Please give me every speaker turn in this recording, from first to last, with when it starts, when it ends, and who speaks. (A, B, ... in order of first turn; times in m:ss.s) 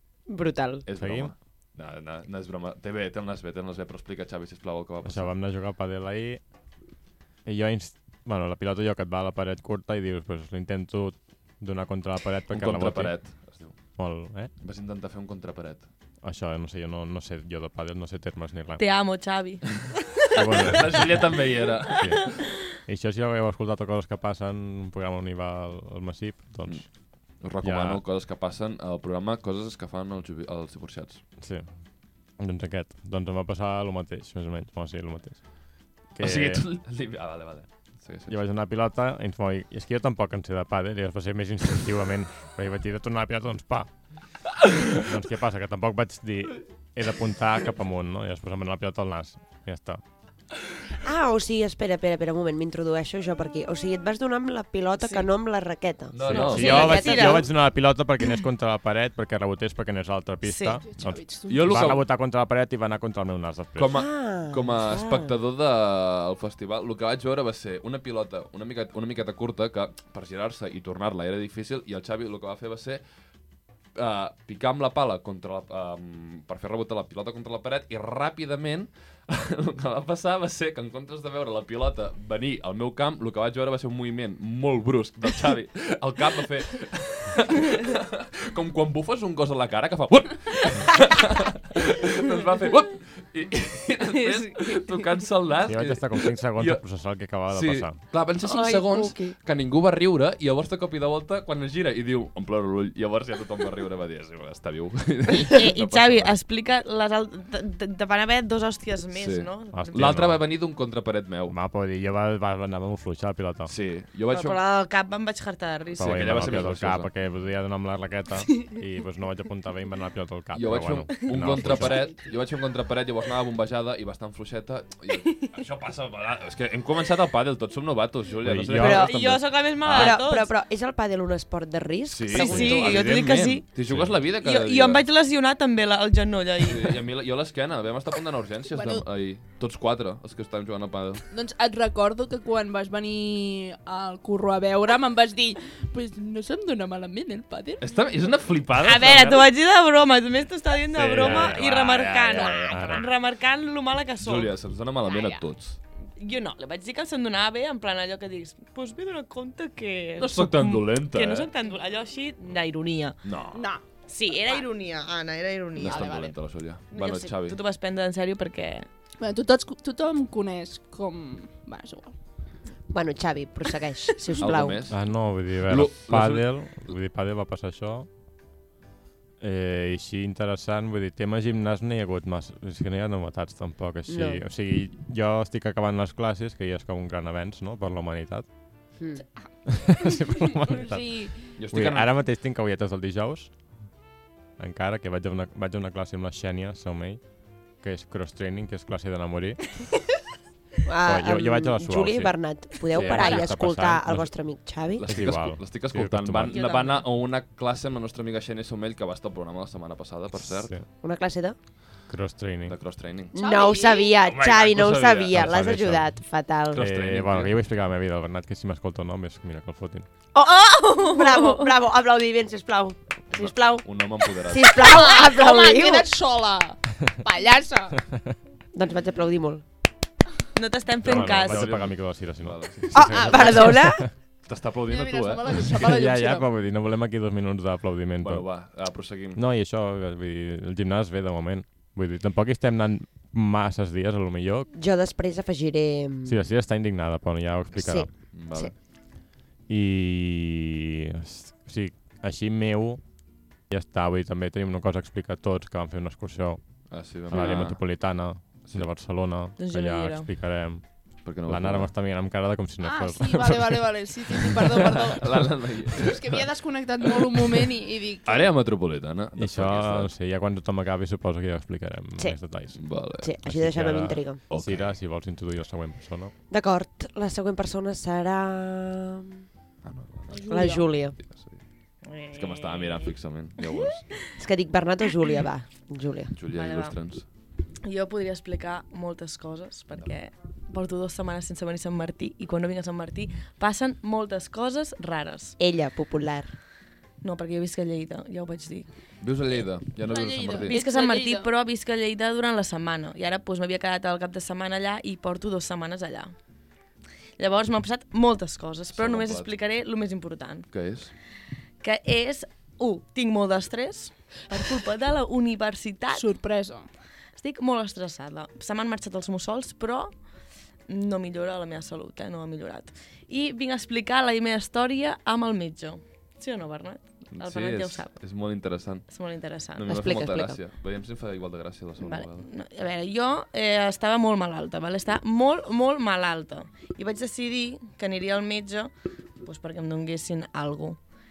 0:00.3-0:00.8 A
0:00.9-0:05.3 B
0:01.0-0:01.3 C
0:05.0-0:06.5 C
0:07.4-0:14.5 C
0:12.5-0:14.0 B
0:14.6-0:15.9 B
0:16.2-0:18.8 C
0:18.8-0:20.7 D
0:20.3-0:21.4 C
0:20.6-0:22.1 B
0:21.9-0:28.0 C
0:22.0-0:22.6 D
0:26.7-0:31.2 B
0:31.4-0:36.6 C
0:36.2-0:38.4 B
0:38.3-0:43.9 C
0:44.9-0:50.0 C
0:51.0-0:57.5 A
0:55.0-0:55.3 D
0:56.1-0:57.0 B
0:56.3-1:04.0 C
0:56.3-0:57.5 D
1:00.4-1:00.8 D
1:00.8-1:02.0 E
1:01.5-1:02.0 B
1:03.8-1:13.0 B
1:03.9-1:05.3 A
1:14.0-1:36.8 B
1:34.2-1:35.0 D
1:35.7-1:38.1 C
1:37.5-1:46.4 B
1:38.5-1:39.4 A
1:45.5-1:50.2 D
1:49.2-1:51.6 B
1:49.7-1:50.5 C
1:51.5-1:53.7 C
1:53.7-1:54.6 B
1:54.3-1:56.7 D
1:56.0-2:02.1 C
1:56.0-1:57.1 B
2:00.5-2:10.2 B
2:01.6-2:02.2 E
2:08.4-2:09.2 C
2:08.7-2:09.2 A
2:08.8-2:10.5 D
2:09.8-2:12.9 A
2:12.1-2:15.1 B
2:12.3-2:13.7 D
2:12.5-2:12.7 C
2:13.9-2:14.2 C
2:14.4-2:17.0 D
2:16.6-2:21.2 B
2:18.7-2:19.0 E
2:21.3-2:27.9 E
2:27.8-2:29.5 B
2:28.8-2:34.5 D
2:30.9-2:32.0 B
2:31.0-2:33.1 C
2:32.3-2:33.0 E
2:34.2-2:35.8 B
2:35.0-2:35.4 E
2:36.2-2:43.2 D
2:40.2-2:41.5 B
2:43.2-2:43.7 B
2:43.5-2:43.8 E
2:44.1-2:46.3 D
2:45.8-2:47.6 B
2:45.8-2:46.3 E
2:46.9-2:48.9 D
2:49.2-2:52.1 E
2:52.9-2:54.8 A
2:54.4-2:57.0 B
2:54.9-2:58.1 C
2:59.4-3:08.5 C
3:04.1-3:04.4 A
3:09.0-3:09.2 A
3:09.7-3:13.6 C
3:10.7-3:11.4 E
3:11.6-3:12.2 B
3:14.6-3:19.7 C
3:20.8-3:25.1 A
3:21.1-3:24.3 C
3:23.0-3:23.5 E
3:25.0-3:30.8 B
3:25.0-3:26.6 C
3:26.5-3:26.8 E
3:30.4-3:30.9 C
3:31.0-3:31.6 A
3:32.1-3:32.8 C
3:32.7-3:33.4 B
3:33.3-3:34.2 E
3:33.3-3:36.8 A
3:34.2-3:35.7 B
3:35.3-3:36.2 C
3:36.7-3:37.6 B
3:36.8-3:40.1 C
3:40.3-3:46.1 A
3:40.8-3:41.7 D
3:43.3-3:44.8 B
3:44.8-3:48.0 E
3:48.7-3:49.6 A
3:50.6-3:51.7 D
3:51.0-3:54.1 C
3:51.1-3:53.7 B
3:52.9-3:54.1 A
3:54.5-3:55.7 B
3:54.9-3:56.5 E
3:55.7-3:58.6 C
3:58.2-3:59.4 B
3:59.4-4:04.7 C
4:04.7-4:06.4 A
4:06.3-4:08.3 C
4:07.8-4:08.7 A
4:08.3-4:08.7 B
4:09.7-4:13.0 C
4:13.7-4:23.8 C
4:16.9-4:17.9 B
4:18.6-4:18.9 B
4:19.6-4:20.3 D
4:21.2-4:21.9 B
4:22.8-4:28.5 E
4:24.4-4:24.9 C
4:25.2-4:26.5 B
4:27.0-4:27.6 B
4:28.2-4:30.1 B
4:29.4-4:36.3 C
4:32.8-4:33.3 B
4:33.2-4:34.4 A
4:34.5-4:35.0 B
4:36.5-4:39.4 A
4:39.8-4:41.6 B
4:40.3-4:40.9 E
4:40.5-4:41.2 A
4:42.0-4:43.1 D
4:42.3-4:44.1 B
4:44.4-4:46.3 A
4:46.4-4:47.3 B
4:46.5-4:47.0 D
4:47.8-4:55.6 D
4:55.6-4:56.5 A
4:57.2-4:58.9 D
4:59.2-5:00.8 B
5:00.0-5:01.5 E
5:00.7-5:06.3 D
5:07.4-5:10.7 D
5:09.0-5:09.5 B
5:10.7-5:11.1 B
5:11.8-5:16.3 D
5:16.1-5:16.9 E
5:17.4-5:20.1 D
5:20.9-5:28.1 D
5:27.3-5:29.0 B
5:29.1-5:29.9 D
5:29.8-5:32.5 B
5:29.9-5:30.6 A
5:32.0-5:38.9 D
5:39.4-5:41.0 D